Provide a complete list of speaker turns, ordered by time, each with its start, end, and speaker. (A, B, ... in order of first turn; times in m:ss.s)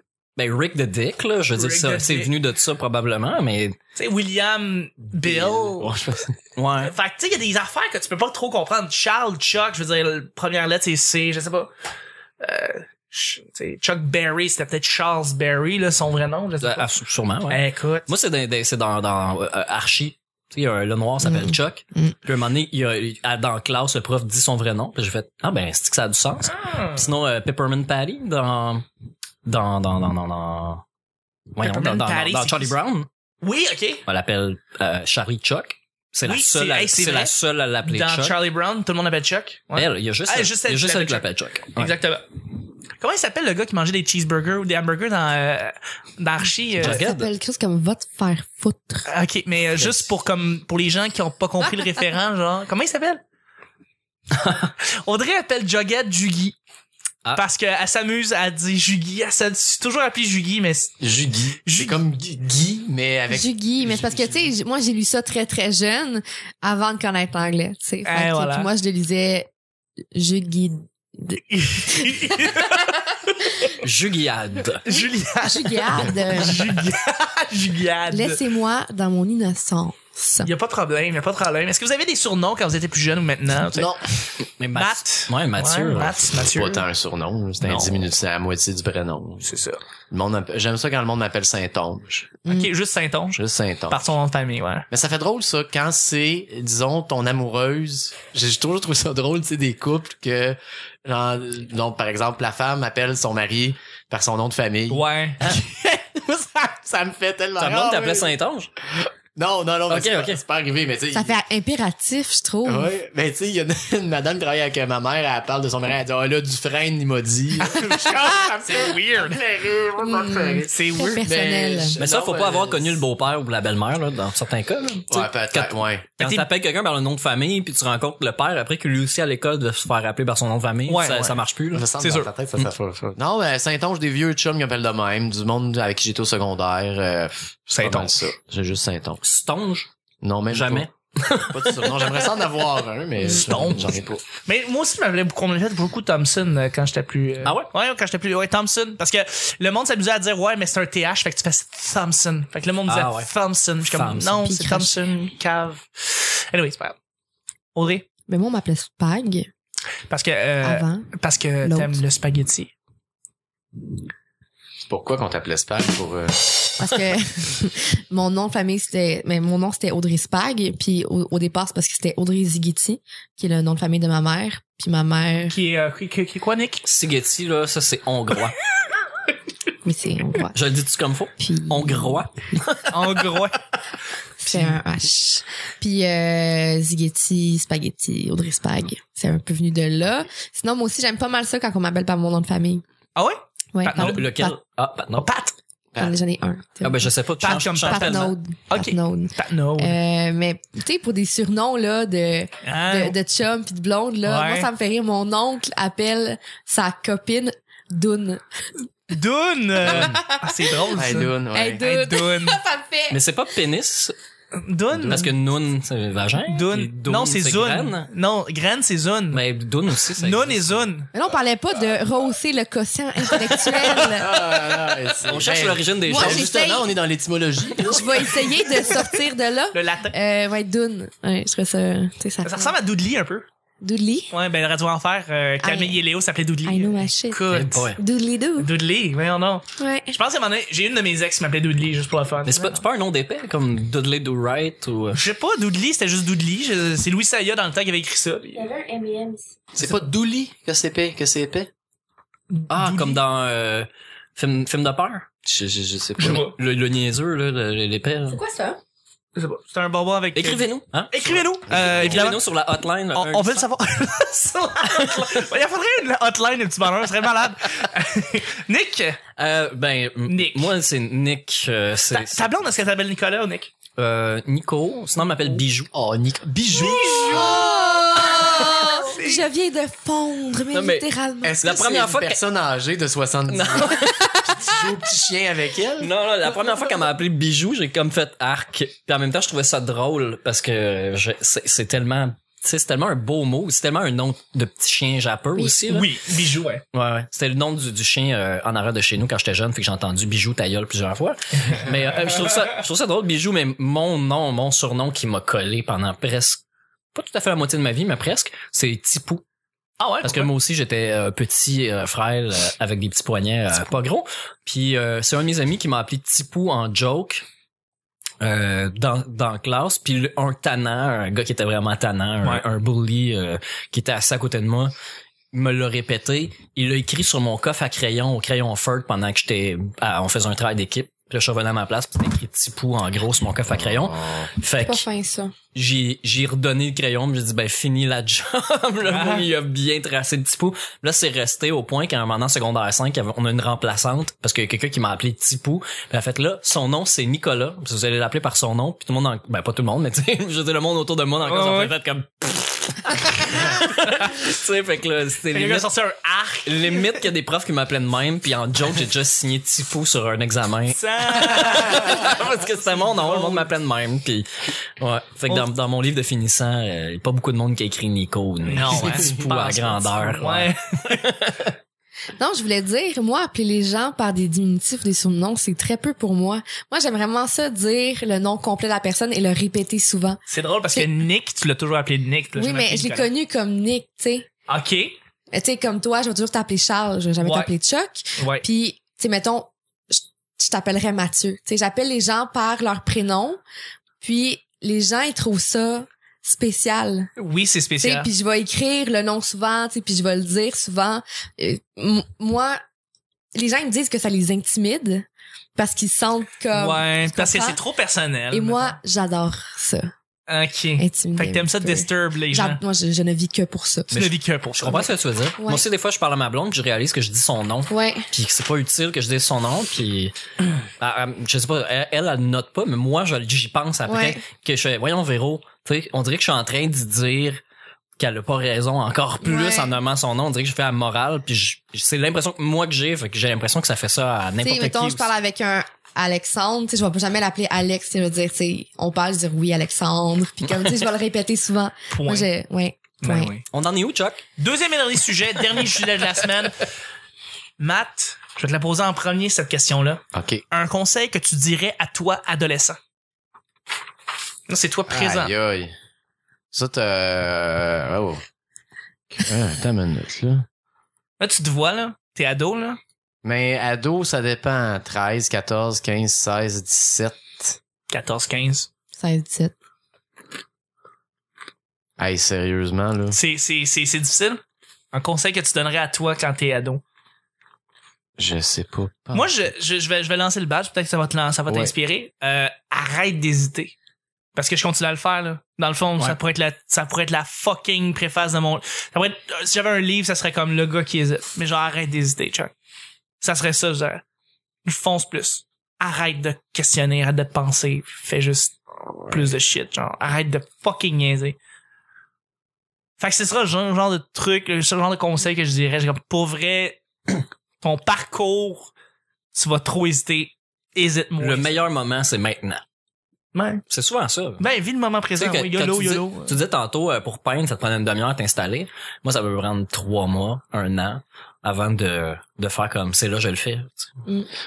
0:00.4-0:03.8 A
0:01.5-0:02.3 B
0:04.0-0:06.0 B
0:05.1-0:06.3 C
0:06.6-0:06.9 A
0:06.8-0:11.7 B
0:12.4-0:16.9 B
0:16.6-0:28.9 A
0:17.5-0:18.1 B
0:21.2-0:22.1 D
0:26.5-0:27.1 B
0:29.4-0:30.8 A
0:31.5-0:33.1 A
0:31.6-0:32.7 B
0:33.4-0:34.0 B
0:34.0-0:38.3 A
0:36.2-0:37.3 B
0:37.8-0:42.2 B
0:39.7-0:41.9 A
0:43.0-0:47.0 B
0:46.8-0:47.3 A
0:46.8-0:49.0 D
0:49.1-0:53.2 B
0:54.3-0:54.7 A
0:54.8-0:56.6 B
0:57.3-1:00.9 B
1:01.0-1:04.5 C
1:01.6-1:02.0 B
1:03.3-1:09.5 D
1:08.0-1:08.7 B
1:10.1-1:12.7 D
1:11.8-1:12.9 B
1:13.8-1:14.9 A
1:14.8-1:18.4 B
1:14.9-1:16.7 D
1:18.1-1:20.5 D
1:20.4-1:24.0 B
1:23.7-1:24.0 C
1:24.6-1:26.3 A
1:24.7-1:26.9 B
1:26.4-1:29.4 C
1:27.6-1:27.9 B
1:29.4-1:29.8 B
1:30.1-1:32.3 C
1:32.5-1:33.4 B
1:33.3-1:34.0 C
1:33.9-1:34.9 B
1:34.9-1:48.3 C
1:44.9-1:45.5 B
1:47.6-1:48.7 A
1:49.0-1:51.4 C
1:49.9-1:50.4 A
1:51.1-1:52.9 D
1:52.6-2:03.0 C
1:57.6-1:59.4 B
2:00.0-2:02.0 D
2:00.7-2:01.2 B
2:02.0-2:11.9 A
2:05.1-2:06.1 C
2:06.2-2:06.5 B
2:10.9-2:11.4 B
2:11.7-2:19.2 C
2:12.0-2:12.3 B
2:17.7-2:18.2 B
2:19.2-2:19.9 A
2:20.2-2:20.9 C
2:20.5-2:22.2 A
2:21.5-2:24.2 C
2:23.2-2:37.0 B
2:27.4-2:27.7 A
2:32.9-2:33.3 A
2:33.9-2:34.4 A
2:34.4-2:34.9 D
2:37.7-2:38.0 B
2:38.3-2:39.5 D
2:40.1-2:42.7 B
2:40.6-2:41.1 D
2:41.6-2:42.0 D
2:44.8-2:46.7 C
2:46.8-2:55.6 D
2:55.5-2:56.8 B
2:56.8-2:58.6 A
2:59.8-3:00.6 D
3:00.5-3:03.4 A
3:01.4-3:02.6 D
3:02.9-3:03.6 B
3:04.4-3:12.8 D
3:13.2-3:14.2 B
3:13.7-3:14.6 D
3:13.9-3:15.3 A
3:15.2-3:15.5 B
3:16.0-3:17.1 D
3:16.8-3:18.3 A
3:17.4-3:20.0 B
3:17.8-3:28.6 D
3:22.6-3:23.2 B
3:24.2-3:24.7 B
3:29.1-3:32.6 B
3:29.8-3:33.2 D
3:30.9-3:31.8 C
3:33.1-3:34.1 A
3:34.5-3:35.3 B
3:34.9-3:38.1 A
3:36.5-3:39.4 B
3:39.3-3:40.8 A
3:40.2-3:41.1 B
3:41.1-3:44.4 D
3:43.9-3:48.5 C
3:45.3-3:46.5 A
3:46.1-3:46.9 D
3:47.8-3:52.7 D
3:49.7-3:50.1 B
3:52.4-3:53.5 B
3:53.8-3:54.3 D
3:54.3-3:57.9 B
3:55.6-3:56.0 D
3:56.6-3:57.4 D
3:57.5-3:58.0 A
3:58.0-3:58.7 D
3:58.6-4:02.8 B
3:59.8-4:00.2 D
4:02.4-4:05.2 A
4:05.1-4:08.6 B
4:08.6-4:09.5 D
4:09.7-4:11.7 C
4:12.5-4:13.2 B
4:12.7-4:15.3 A
4:15.4-4:16.4 C
4:16.2-4:16.5 B
4:16.2-4:18.4 A
4:18.3-4:18.8 D
4:19.4-4:22.4 B
4:20.3-4:23.6 A
4:21.7-4:22.2 C
4:23.1-4:29.2 B
4:24.9-4:25.4 A
4:29.4-4:32.5 A
4:30.3-4:30.7 B
4:32.1-4:33.7 B
4:34.0-4:35.9 A
4:35.9-4:37.8 C
4:36.7-4:39.5 B
4:37.2-4:41.6 D
4:40.7-4:41.1 A
4:41.4-4:46.1 C
4:41.6-4:42.4 A
4:43.5-4:44.3 A
4:44.0-4:44.8 D
4:46.0-4:56.1 A
4:55.9-4:56.8 B
4:56.9-5:06.6 A
5:07.1-5:09.4 A
5:10.0-5:10.5 B
5:10.2-5:17.4 A
5:18.4-5:24.9 A
5:25.5-5:35.0 A
5:33.7-5:34.5 C
5:34.8-5:35.5 D
5:35.7-5:55.9 A
5:39.0-5:39.5 B
5:51.4-5:51.9 B
5:55.5-5:57.2 B
5:56.6-6:11.7 A
6:00.9-6:02.4 B
6:03.0-6:03.7 B
6:08.6-6:11.2 B
6:12.4-6:21.1 D
6:20.5-6:23.3 B
6:22.6-6:24.5 D
6:24.7-6:25.1 B
6:25.5-6:33.6 D
6:27.4-6:27.7 B
6:28.4-6:28.6 B
6:34.2-6:37.3 D
6:37.4-6:38.3 B
6:38.0-6:42.8 D
6:43.5-6:47.8 D
6:46.7-6:49.0 B
6:48.5-6:50.1 D
6:50.5-6:52.8 B
6:51.0-6:54.1 D
6:54.1-6:55.1 B
6:54.1-7:00.4 A
6:55.6-6:55.8 D
6:57.9-6:58.3 D
7:01.0-7:07.6 A
7:04.1-7:04.4 D
7:08.2-7:15.3 A
7:09.4-7:09.9 D
7:14.6-7:23.5 D
7:22.1-7:22.5 B
7:23.2-7:23.6 B
7:23.7-7:24.4 A
7:24.6-7:26.9 B
7:27.8-7:33.0 B
7:30.3-7:30.6 C
7:34.7-7:35.5 B
7:35.1-7:35.9 C
7:36.7-7:38.4 C
7:39.3-7:40.6 C
7:41.4-7:43.0 B
7:43.4-7:47.8 C
7:48.1-7:48.9 B
7:49.2-7:49.7 D
7:52.2-7:53.4 C
7:53.3-7:54.6 B
7:55.1-7:57.0 B
7:58.4-7:59.5 C
7:59.3-8:03.9 B
8:01.7-8:01.9 C
8:04.5-8:12.7 B
8:13.4-8:14.2 B
8:14.8-8:18.8 B
8:19.3-8:21.6 B
8:23.2-8:28.9 B
8:29.5-8:31.8 B
8:31.4-8:32.8 A
8:33.5-8:33.8 B
8:33.9-8:34.6 A
8:34.6-8:36.5 B
8:35.4-8:44.1 A